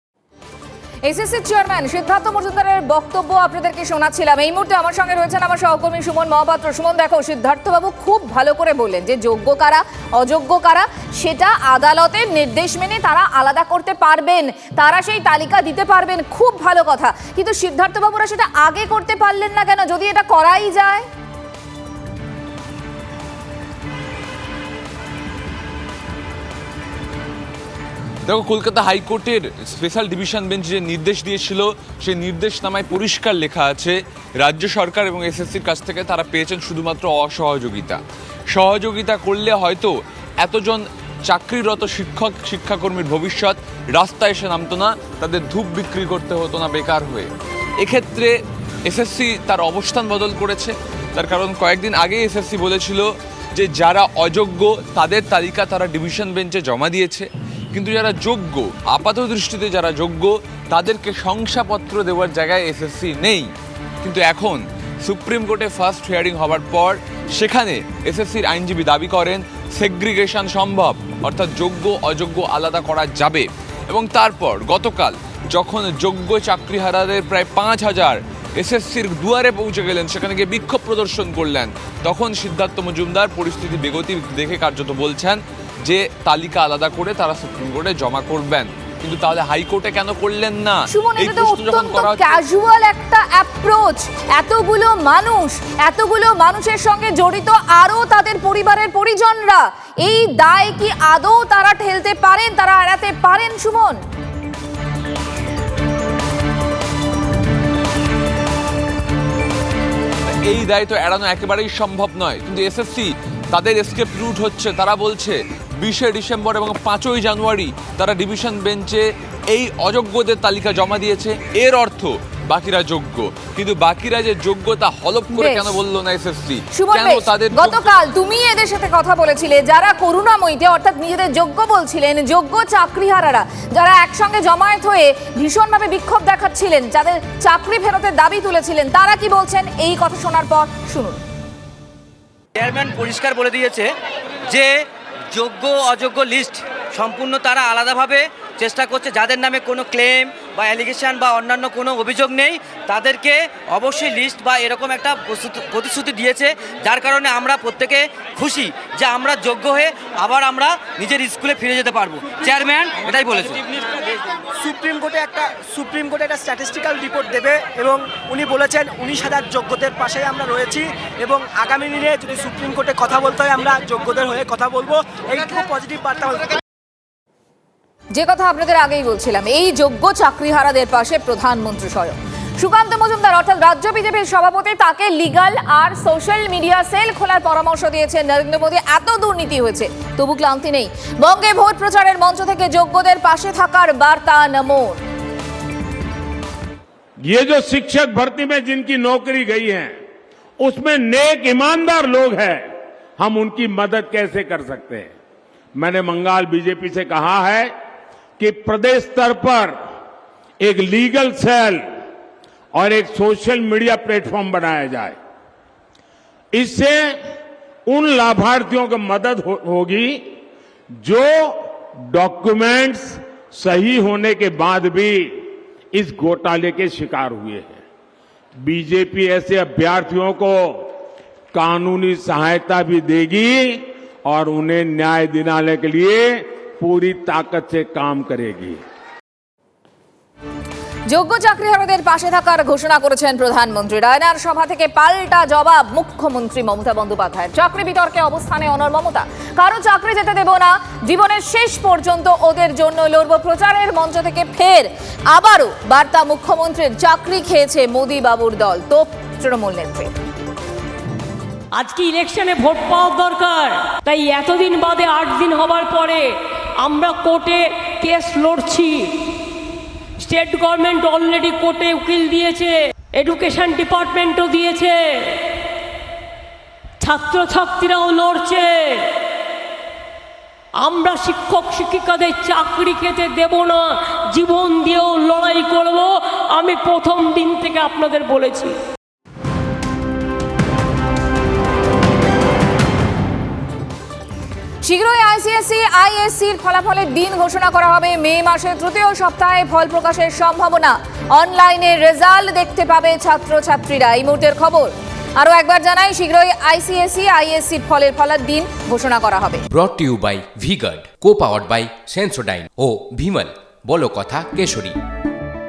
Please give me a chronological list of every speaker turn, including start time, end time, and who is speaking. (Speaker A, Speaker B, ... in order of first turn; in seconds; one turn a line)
Speaker A: 1.1-21.1
Speaker B: 28.2-38.0
Speaker B: 38.5-48.3
Speaker B: 48.9-63.5
Speaker B: 64.0-92.4
Speaker A: 90.9-104.0
Speaker B: 110.4-128.0
Speaker A: 125.3-125.8
Speaker A: 126.7-141.2
Speaker C: 142.6-143.9
Speaker C: 144.5-163.8
Speaker D: 164.6-176.6
Speaker A: 178.1-195.0
Speaker E: 197.2-200.0
Speaker E: 200.6-205.2
Speaker E: 205.8-207.7
Speaker E: 208.4-209.8
Speaker E: 210.6-211.9
Speaker E: 212.7-215.2
Speaker E: 216.5-217.2
Speaker E: 217.9-220.3
Speaker E: 221.0-227.8
Speaker E: 228.6-230.9
Speaker E: 231.5-238.8
Speaker A: 241.1-260.1
Speaker F: 261.8-269.3
Speaker F: 270.2-275.5
Speaker F: 277.0-279.1
Speaker F: 280.8-288.8
Speaker A: 294.8-309.6
Speaker G: 309.7-314.9